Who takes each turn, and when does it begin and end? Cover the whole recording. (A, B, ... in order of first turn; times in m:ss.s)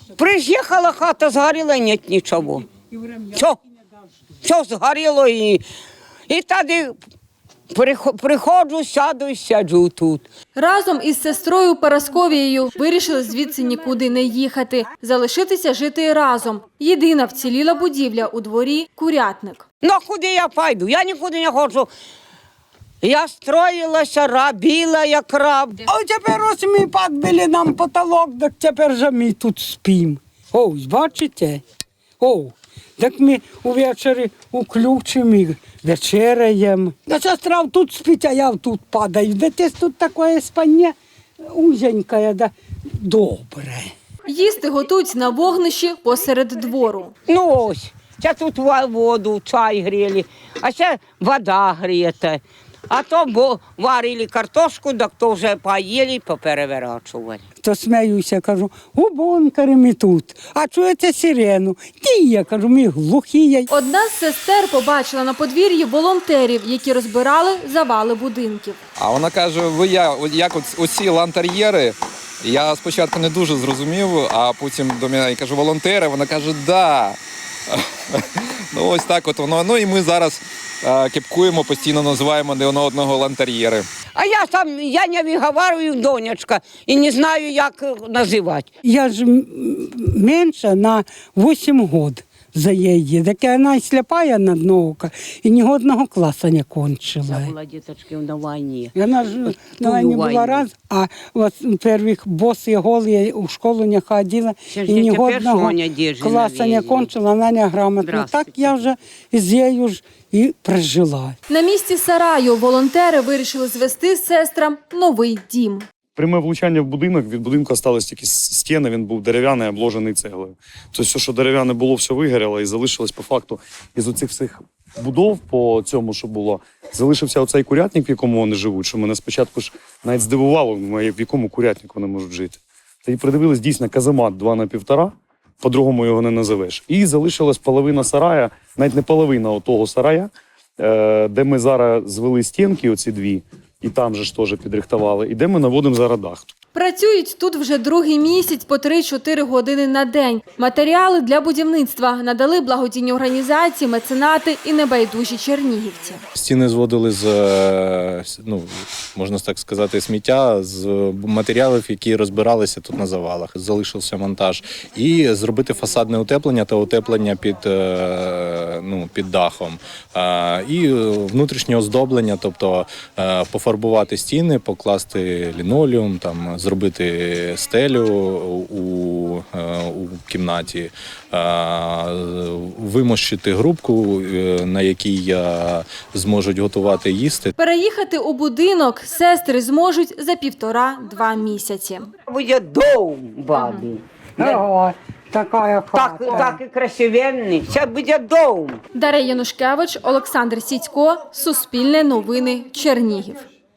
0:00.2-0:02.7 A
0:03.3-0:03.6 A
0:04.4-0:05.6 A
0:06.3-0:07.0 A
0:07.7-0:10.3 A
0:10.5-0:19.6 B
0:19.8-0:21.9 A
0:23.0-0:25.8 A
0:25.8-0:31.6 C
0:32.2-0:43.9 C
0:44.2-0:47.1 B
0:47.3-0:57.4 A
0:57.6-1:03.7 C
1:03.7-1:08.8 B
1:09.0-1:23.9 D
1:24.1-1:28.7 A
1:28.8-1:37.5 C
1:37.3-1:38.9 A
1:38.9-1:51.4 C
1:39.6-1:40.6 A
1:44.7-1:47.1 A
1:48.0-1:48.7 A
1:51.5-1:55.8 B
1:56.2-2:26.5 E
2:26.7-2:36.2 B
2:36.3-3:07.5 F
3:07.6-3:12.1 B
3:12.3-3:14.6 A
3:14.4-3:16.6 C
3:15.9-3:18.8 A
3:18.9-3:23.4 B